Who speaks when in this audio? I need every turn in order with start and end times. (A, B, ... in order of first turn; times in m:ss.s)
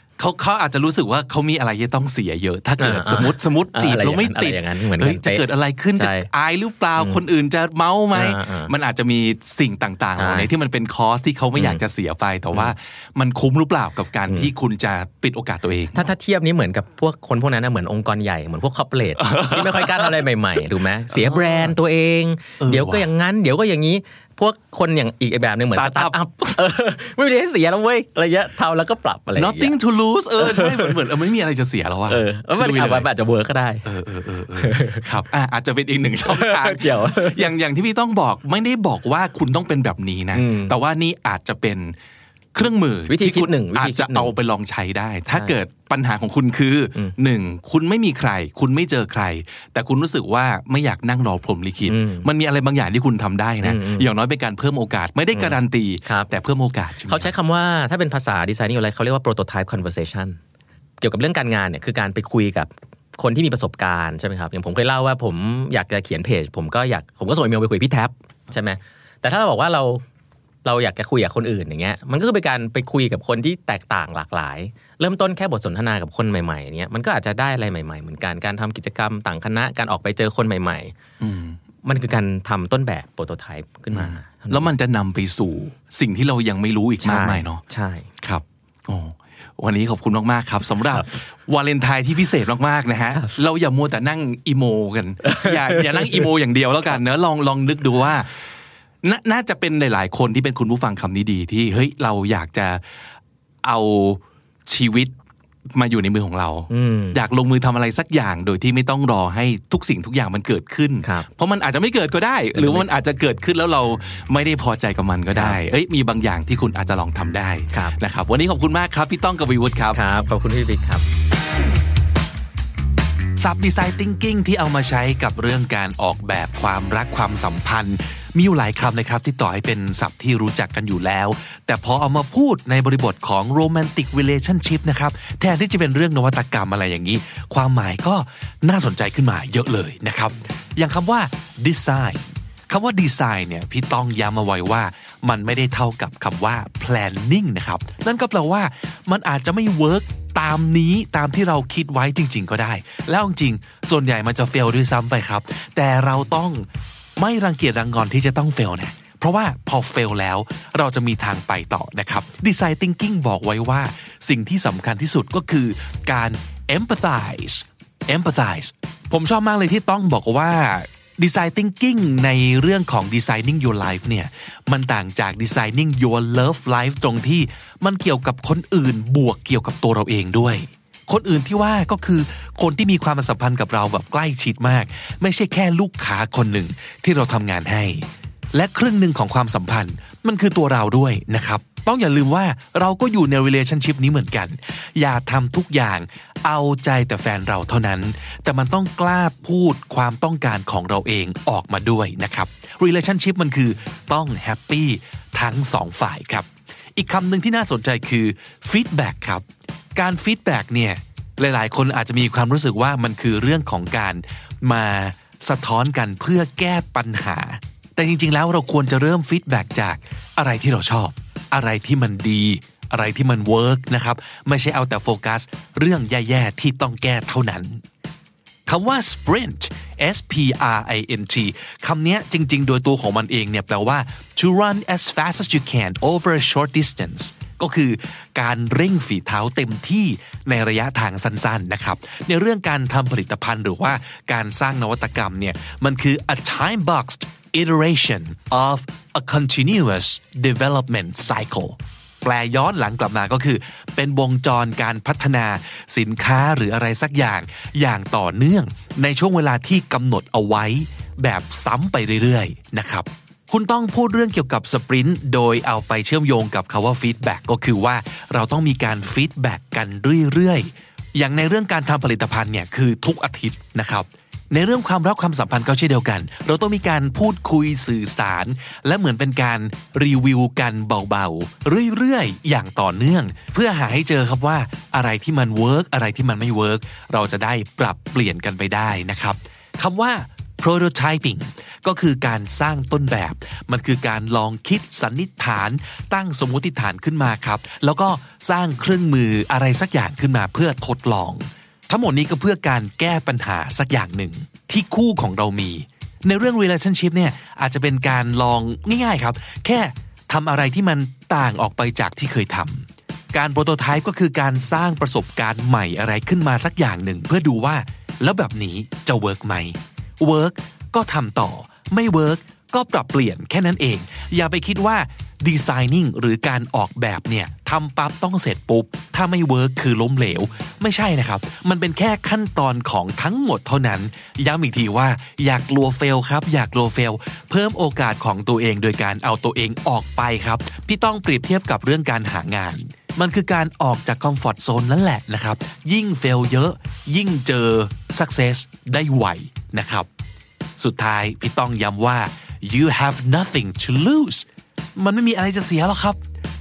0:00.2-0:16.0 A
0:02.8-0:06.3 B
0:08.1-0:08.7 B
0:10.2-0:10.5 B
0:11.6-0:11.8 B
0:15.9-0:29.8 B
0:19.2-0:20.1 A
0:21.1-0:21.7 A
0:22.6-0:23.0 A
0:25.7-0:26.1 A
0:29.4-0:33.0 A
0:30.4-0:31.0 B
0:32.1-0:33.8 B
0:33.8-0:42.0 A
0:34.6-0:35.0 B
0:36.2-0:37.5 B
0:40.3-0:40.8 B
0:42.5-0:57.2 A
0:43.1-0:44.4 B
0:45.3-0:45.6 B
0:51.8-0:52.3 B
0:53.6-0:54.1 B
0:55.3-0:56.3 B
0:57.1-1:00.4 B
1:01.0-1:10.0 B
1:10.6-1:20.9 B
1:21.2-1:21.6 A
1:21.8-1:24.7 B
1:23.9-1:27.6 A
1:27.0-1:28.1 B
1:28.2-1:38.3 A
1:35.2-1:36.2 B
1:39.0-1:42.8 A
1:43.6-1:45.1 A
1:45.7-2:00.0 A
1:46.7-1:47.2 B
1:51.0-1:51.3 B
1:52.5-1:52.9 B
1:55.3-1:55.6 B
1:59.9-2:01.0 B
2:03.4-3:47.8 A
3:48.7-5:50.1 A
5:50.8-5:56.2 A